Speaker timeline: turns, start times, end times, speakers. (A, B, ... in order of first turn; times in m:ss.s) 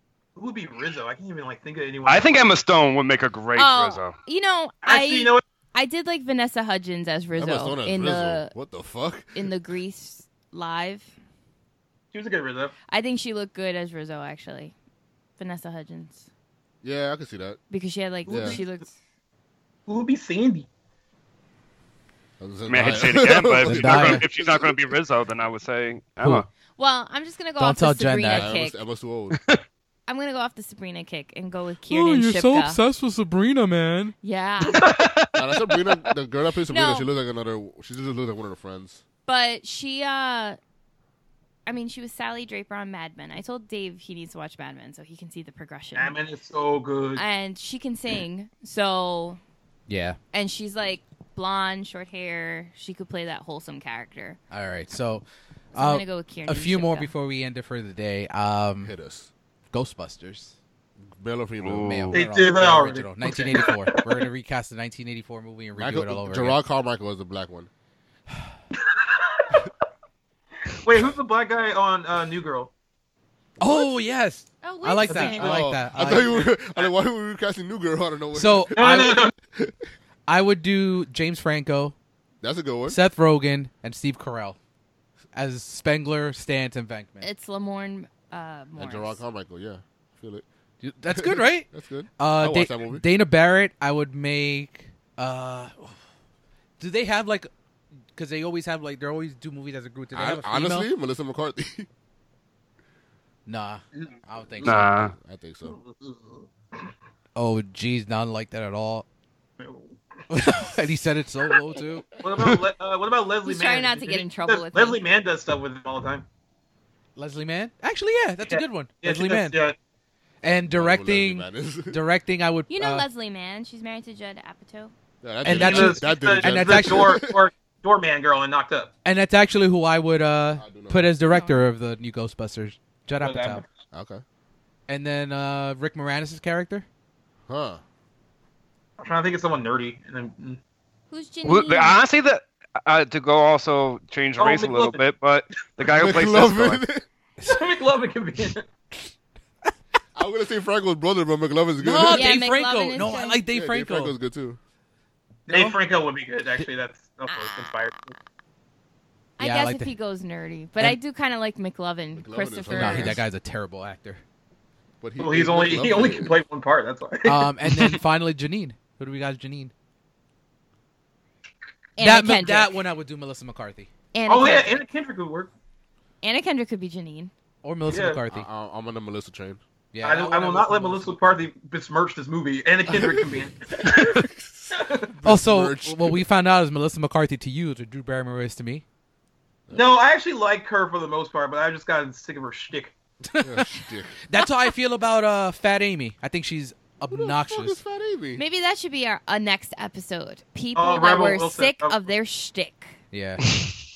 0:00.4-0:02.4 A
0:02.0-0:04.2 B
0:03.5-0:08.5 C
0:04.8-0:05.4 A
0:07.4-0:09.5 D
0:09.3-0:11.1 C
0:12.1-0:12.7 A
0:12.9-0:14.7 C
0:15.4-0:16.2 C
0:16.8-0:17.6 D
0:17.7-0:18.9 C
0:18.3-0:18.6 D
0:18.3-0:18.6 A
0:19.9-0:20.7 A
0:22.4-0:25.0 D
0:22.7-0:26.4 B
0:23.6-0:24.2 E
0:26.2-0:26.4 E
0:26.8-0:28.8 C
0:27.6-0:28.5 E
0:28.3-0:29.4 D
0:29.3-0:29.6 B
0:30.1-0:32.8 C
0:31.9-0:34.1 E
0:34.2-0:34.9 C
0:34.7-0:36.0 B
0:35.3-0:39.0 D
0:36.7-0:37.1 C
0:39.2-0:40.6 C
0:41.6-0:46.2 C
0:45.9-0:47.2 A
0:47.1-0:49.4 C
0:49.9-0:50.2 E
0:50.3-0:54.4 C
0:54.5-0:58.9 E
0:55.7-0:57.1 C
0:58.8-0:59.3 D
0:59.7-1:00.5 E
1:01.0-1:02.0 D
1:01.6-1:02.2 B
1:01.8-1:06.6 E
1:02.1-1:04.2 A
1:05.8-1:07.7 D
1:08.8-1:09.7 A
1:10.7-1:12.7 A
1:13.6-1:16.4 E
1:14.6-1:15.5 C
1:15.1-1:15.4 A
1:15.3-1:19.8 D
1:16.6-1:16.9 A
1:18.3-1:19.2 E
1:18.7-1:19.3 A
1:20.3-1:21.9 E
1:22.4-1:23.0 D
1:22.9-1:24.6 E
1:25.3-1:27.3 E
1:27.2-1:29.2 C
1:28.8-1:30.4 D
1:30.8-1:31.7 E
1:31.1-1:33.0 D
1:32.2-1:36.0 E
1:36.8-1:37.5 E
1:38.1-1:40.9 E
1:40.1-1:41.9 D
1:43.4-1:45.0 E
1:44.5-1:45.8 D
1:44.6-1:45.1 B
1:45.6-1:46.8 A
1:47.4-1:49.0 E
1:49.6-1:50.0 A
1:50.3-1:52.0 E
1:52.2-1:56.2 A
1:53.4-1:55.0 C
1:57.2-1:59.6 E
1:58.5-1:59.8 A
2:00.4-2:03.0 E
2:00.5-2:02.0 D
2:02.7-2:04.9 C
2:05.2-2:07.4 D
2:05.4-2:07.2 E
2:05.4-2:08.9 A
2:09.0-2:13.6 E
2:10.6-2:11.1 D
2:11.3-2:11.6 C
2:13.2-2:13.6 A
2:13.9-2:14.2 D
2:14.9-2:16.8 E
2:17.5-2:17.8 D
2:19.0-2:20.6 A
2:21.1-2:22.0 C
2:21.4-2:26.8 B
2:24.4-2:25.0 A
2:25.8-2:27.0 D
2:27.4-2:28.6 A
2:30.1-2:32.4 D
2:31.8-2:34.2 E
2:32.1-2:33.4 C
2:33.5-2:34.6 D
2:35.5-2:38.1 A
2:35.5-2:35.8 E
2:37.3-2:37.8 C
2:39.4-2:43.2 C
2:39.4-2:39.9 E
2:42.1-2:43.2 D
2:42.7-2:44.2 E
2:45.0-2:46.4 D
2:45.2-2:48.0 A
2:47.2-2:49.7 E
2:52.0-2:52.7 C
2:52.0-2:53.9 E
2:54.1-2:54.8 C
2:54.2-2:55.5 A
2:56.2-2:57.3 C
2:57.6-2:58.5 E
2:57.9-2:58.2 A
2:58.3-2:59.6 D
2:59.9-3:01.4 E
3:00.0-3:05.1 A
3:02.9-3:06.2 D
3:05.2-3:08.8 E
3:09.7-3:12.9 A
3:13.3-3:17.8 E
3:13.4-3:14.2 D
3:17.1-3:18.4 D
3:18.4-3:22.9 C
3:20.7-3:22.0 A
3:23.1-3:23.4 E